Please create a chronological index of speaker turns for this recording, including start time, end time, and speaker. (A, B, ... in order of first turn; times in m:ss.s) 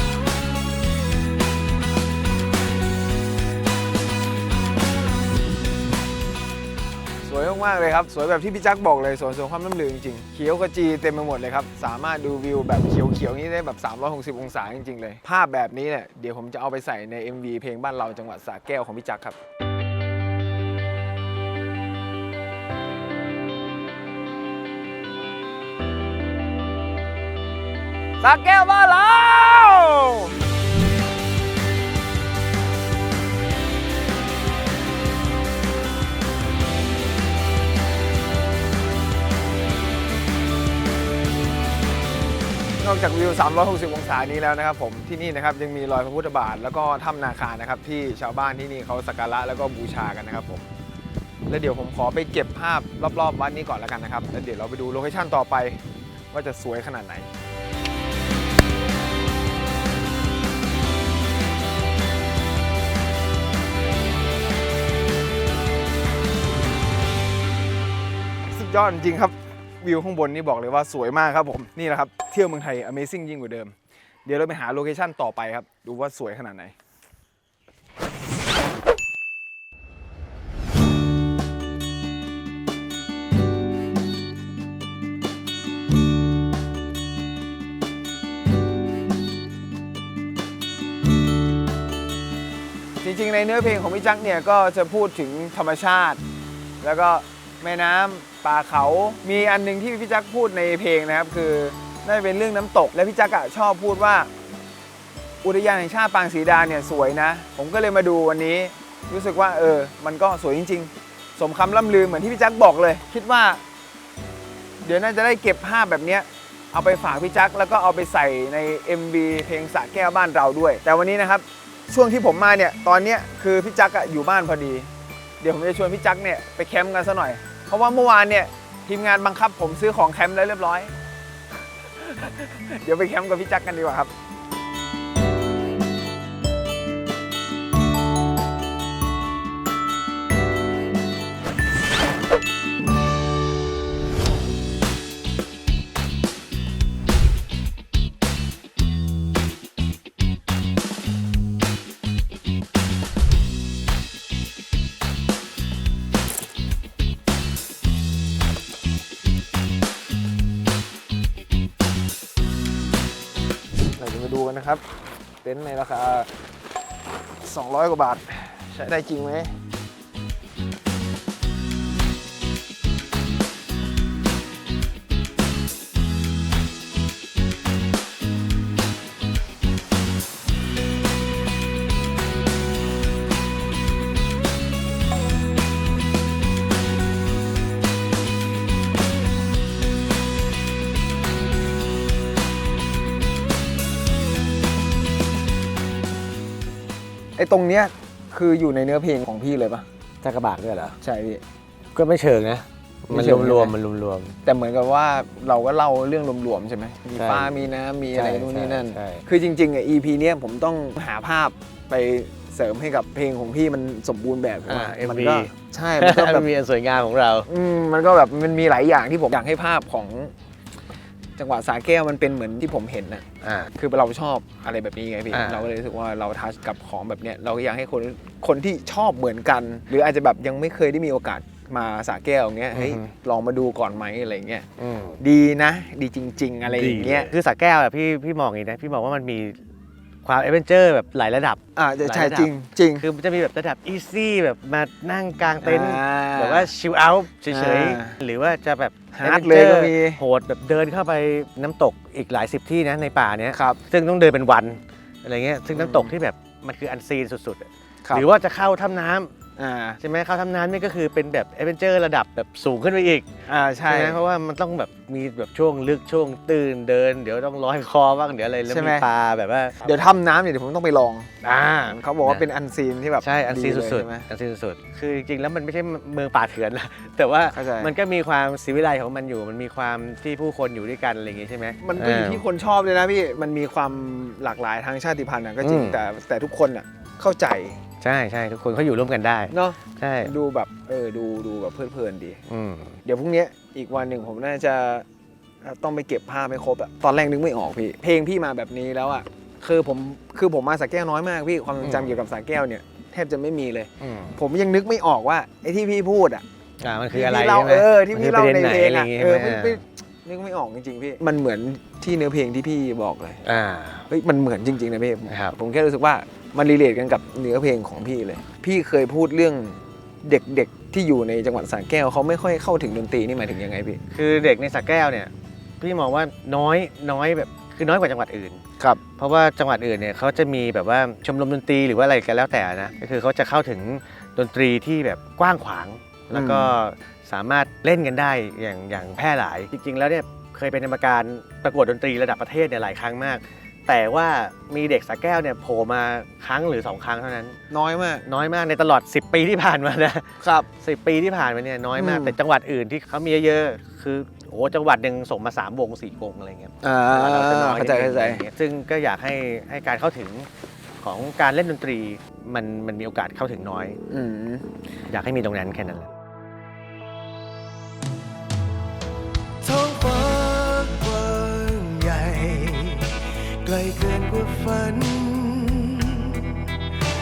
0:07.2-0:19.4 A
0:28.2-0:30.3 A
0:42.8-0:50.6 A
0:51.5-0:57.3 A
1:08.5-1:13.7 A
1:14.2-1:16.7 A
1:33.0-1:36.2 A
1:36.8-1:44.3 A
1:45.4-1:53.6 A
1:54.8-2:04.9 A
2:05.4-2:10.9 A
2:12.0-2:14.1 A
2:44.0-2:44.8 A
2:45.4-2:46.3 A
2:47.4-2:49.5 A
3:17.4-3:19.8 A
3:20.2-3:21.0 B
3:21.0-3:21.4 A
3:21.9-3:24.3 B
3:23.1-3:23.7 A
3:24.4-3:36.5 A
3:27.1-3:29.2 B
3:34.7-3:37.5 B
3:37.5-3:40.3 A
3:41.4-3:54.6 A
3:43.4-3:43.7 B
3:45.3-3:45.6 B
3:52.7-3:53.1 B
3:54.8-3:55.2 B
3:55.2-3:57.3 A
3:56.6-3:59.6 B
4:00.2-4:19.3 B
4:01.8-4:03.0 A
4:05.6-4:06.7 A
4:07.5-4:08.2 A
4:09.1-4:10.2 A
4:13.5-4:13.8 A
4:15.7-4:16.1 A
4:19.6-4:20.0 A
4:20.0-4:23.3 B
4:23.5-4:24.2 A
4:23.9-4:30.2 B
4:28.7-4:29.1 A
4:29.8-4:31.3 A
4:31.4-4:32.4 B
4:31.9-4:34.2 A
4:33.2-4:42.4 B
4:37.5-4:37.9 A
4:41.8-4:47.8 A
4:45.6-4:46.0 B
4:48.0-4:50.3 B
4:49.5-4:52.4 A
4:52.5-4:53.0 B
4:53.0-4:55.0 A
4:55.6-5:06.4 A
5:01.8-5:02.2 B
5:04.0-5:04.4 B
5:06.8-5:09.8 B
5:07.1-5:13.4 A
5:13.4-5:14.1 B
5:14.1-5:24.0 A
5:15.3-5:15.6 B
5:24.1-5:47.6 B
5:36.3-5:36.7 A
5:47.7-5:48.2 A
5:48.2-6:00.5 B
5:50.4-5:50.7 A
5:52.0-5:52.3 A
5:56.8-5:58.4 A
6:01.0-6:04.0 B
6:04.1-6:04.6 A
6:05.1-6:06.1 B
6:09.6-6:16.8 C